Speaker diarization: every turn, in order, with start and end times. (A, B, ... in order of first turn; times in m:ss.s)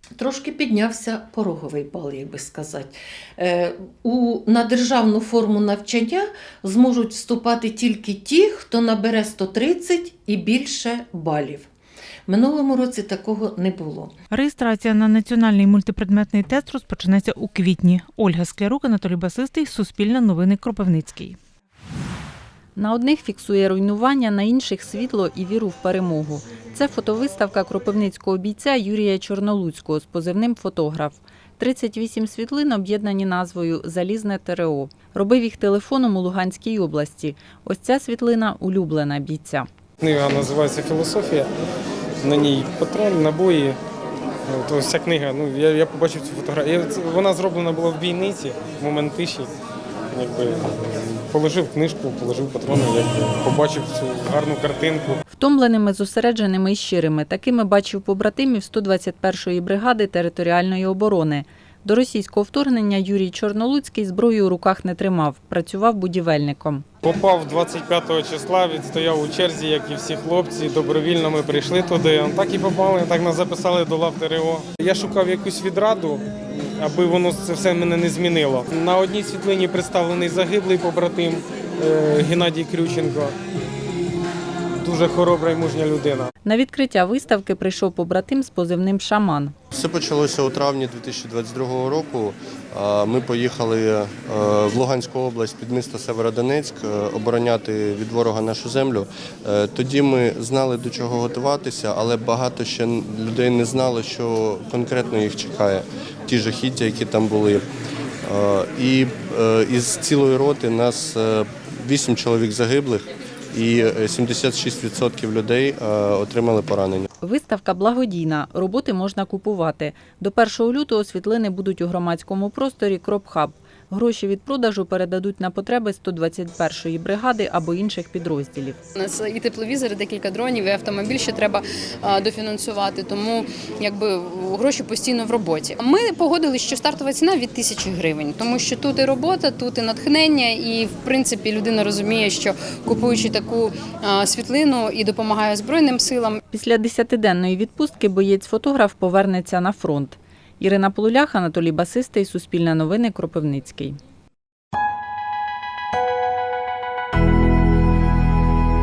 0:00.2-0:11.7 A
0:12.3-0:14.1 A
0:14.3-0:21.4 B
0:22.8-0:39.7 C
0:40.0-0:41.4 D
0:42.2-0:43.8 D
0:44.5-0:49.5 D
0:50.1-0:50.8 D
0:51.3-0:55.1 D
0:55.3-1:06.8 C
1:07.1-1:16.2 D
1:16.8-1:23.3 D
1:24.8-1:26.2 D
1:26.4-1:29.5 C
1:29.7-1:47.7 E
1:48.2-1:57.0 E
1:57.2-2:08.8 C
2:09.0-2:11.6 F
2:12.2-2:26.3 F
2:26.5-2:34.0 C